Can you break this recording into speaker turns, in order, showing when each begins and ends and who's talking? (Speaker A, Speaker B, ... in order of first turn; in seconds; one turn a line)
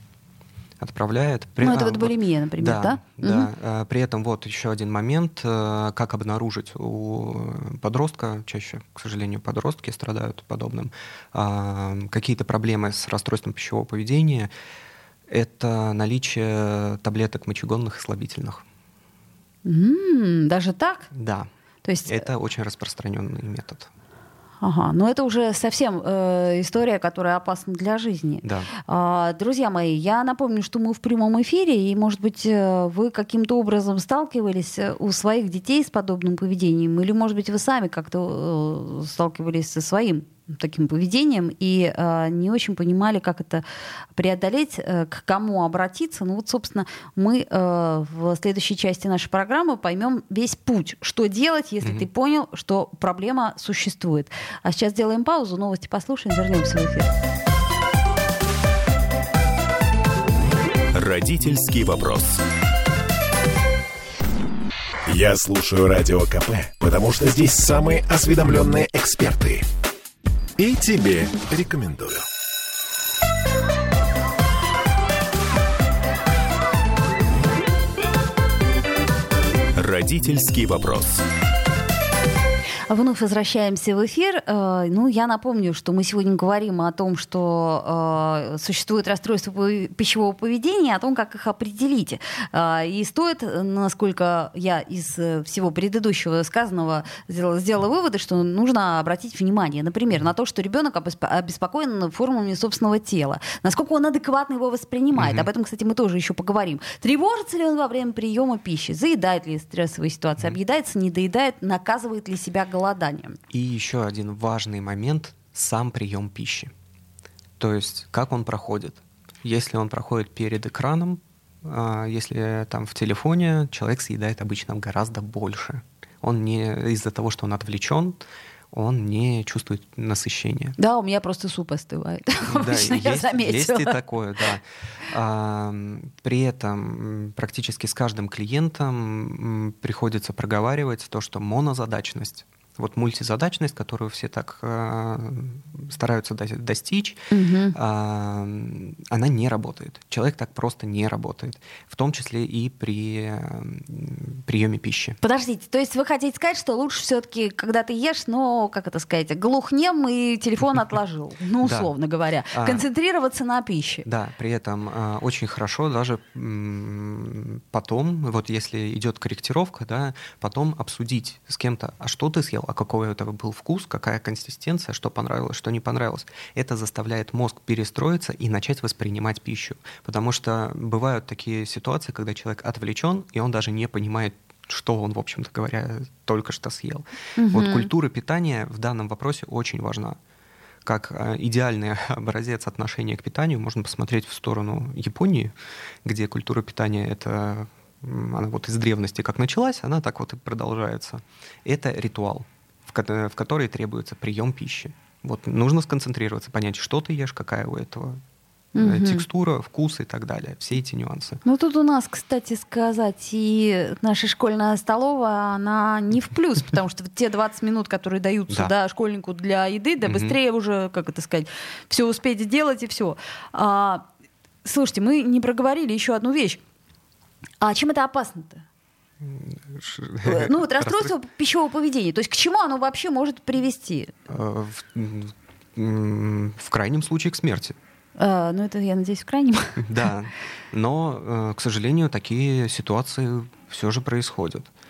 Speaker A: 0.8-14.5
Speaker B: 1.6-3.5
Speaker A: 15.3-18.6
Speaker B: 19.7-21.1
Speaker A: 21.1-21.5
Speaker B: 21.9-22.3
Speaker A: 22.1-23.9
Speaker B: 24.6-57.1
Speaker A: 28.4-28.7
Speaker A: 51.8-52.1
Speaker C: 60.9-62.4
Speaker C: 65.1-69.7
Speaker C: 70.6-72.2
Speaker C: 79.8-81.2
Speaker B: 82.9-113.4
Speaker A: 105.1-105.5
Speaker A: 113.5-116.7
Speaker A: 117.6-130.8
Speaker B: 130.8-134.0
Speaker A: 132.5-155.2
Speaker B: 147.3-147.8
Speaker B: 155.2-164.1
Speaker A: 161.6-161.9
Speaker A: 162.5-162.8
Speaker A: 164.1-190.2
Speaker B: 187.4-187.9
Speaker A: 190.8-208.2
Speaker B: 208.8-209.2
Speaker A: 208.8-211.4
Speaker B: 211.4-224.0
Speaker A: 220.0-220.4
Speaker B: 224.6-226.6
Speaker B: 227.6-228.6
Speaker A: 229.2-231.1
Speaker B: 230.2-234.1
Speaker A: 234.3-237.8
Speaker B: 238.2-239.9
Speaker A: 239.8-244.7